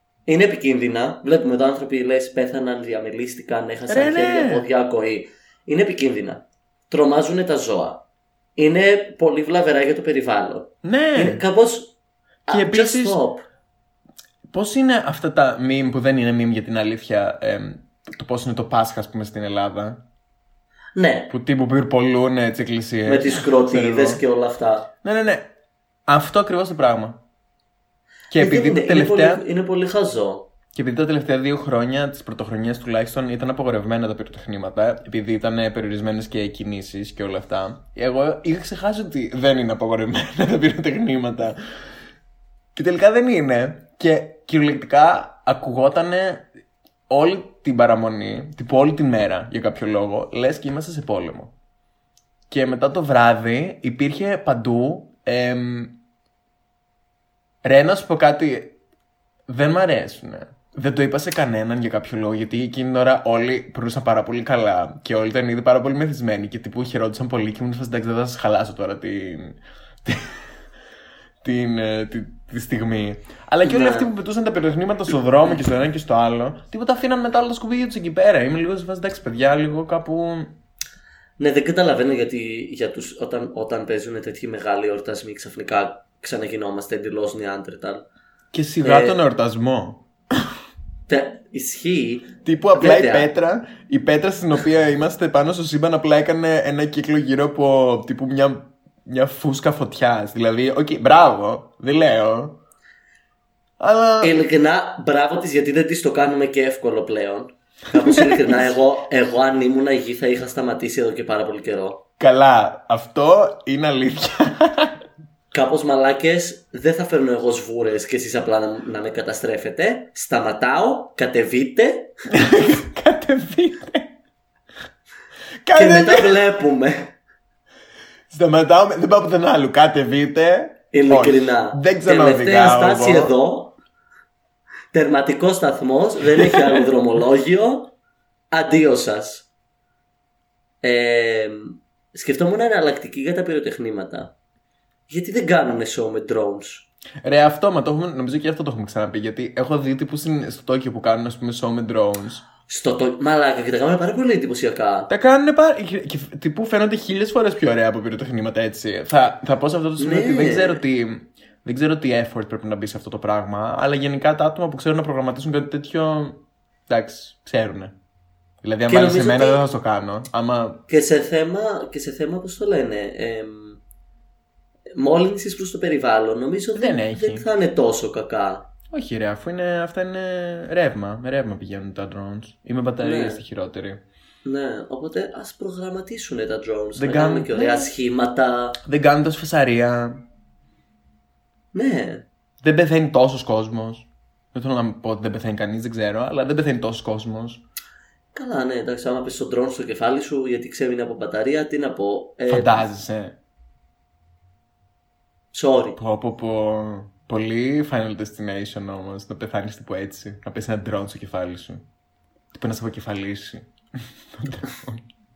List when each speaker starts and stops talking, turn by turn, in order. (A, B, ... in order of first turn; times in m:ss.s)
0:00.3-0:08.0 A
0:03.9-0:04.7 B
0:08.6-0:12.0 A
0:10.8-0:11.4 B
0:12.5-0:13.4 A
0:12.5-0:13.2 B
0:14.5-0:20.0 B
0:21.0-0:21.3 A
0:21.3-0:24.2 B
0:23.1-0:24.9 A
0:25.0-0:25.5 B
0:26.1-0:27.2 B
0:28.3-0:29.4 B
0:28.3-0:30.5 A
0:30.7-0:41.6 B
0:42.7-0:46.5 B
0:47.1-0:51.5 B
0:52.5-0:56.0 B
0:57.6-0:58.8 B
0:59.5-1:10.5 B
1:11.4-1:20.6 B
1:13.6-1:14.1 A
1:21.4-1:28.0 A
1:28.5-1:30.5 B
1:28.8-1:29.2 A
1:31.1-1:33.3 A
1:32.4-1:42.6 B
1:43.8-1:44.4 B
1:44.2-1:52.0 A
1:48.0-1:48.7 B
1:52.2-1:55.0 B
1:55.5-2:02.1 A
2:02.3-2:04.1 B
2:05.6-2:06.4 B
2:05.8-2:07.1 A
2:08.3-2:13.4 B
2:10.9-2:13.8 A
2:14.9-2:17.9 A
2:16.5-2:16.8 B
2:18.5-2:19.5 A
2:20.8-2:24.3 A
2:25.1-2:26.9 A
2:27.2-2:32.4 B
2:32.7-2:35.1 A
2:35.1-2:48.0 B
2:40.0-2:40.8 A
2:48.6-2:50.8 B
2:48.9-2:49.6 A
2:50.9-2:53.8 A
2:55.0-2:58.7 A
2:56.8-2:57.5 B
2:58.9-3:04.0 B
3:03.0-3:03.4 A
3:04.4-3:08.8 A
3:07.0-3:07.9 B
3:08.8-3:10.2 B
3:11.7-3:12.2 A
3:12.6-3:17.6 B
3:18.3-3:22.9 A
3:22.5-3:23.4 B
3:25.5-3:26.0 A
3:26.0-3:31.8 B
3:32.5-3:33.7 B
3:34.3-3:35.0 B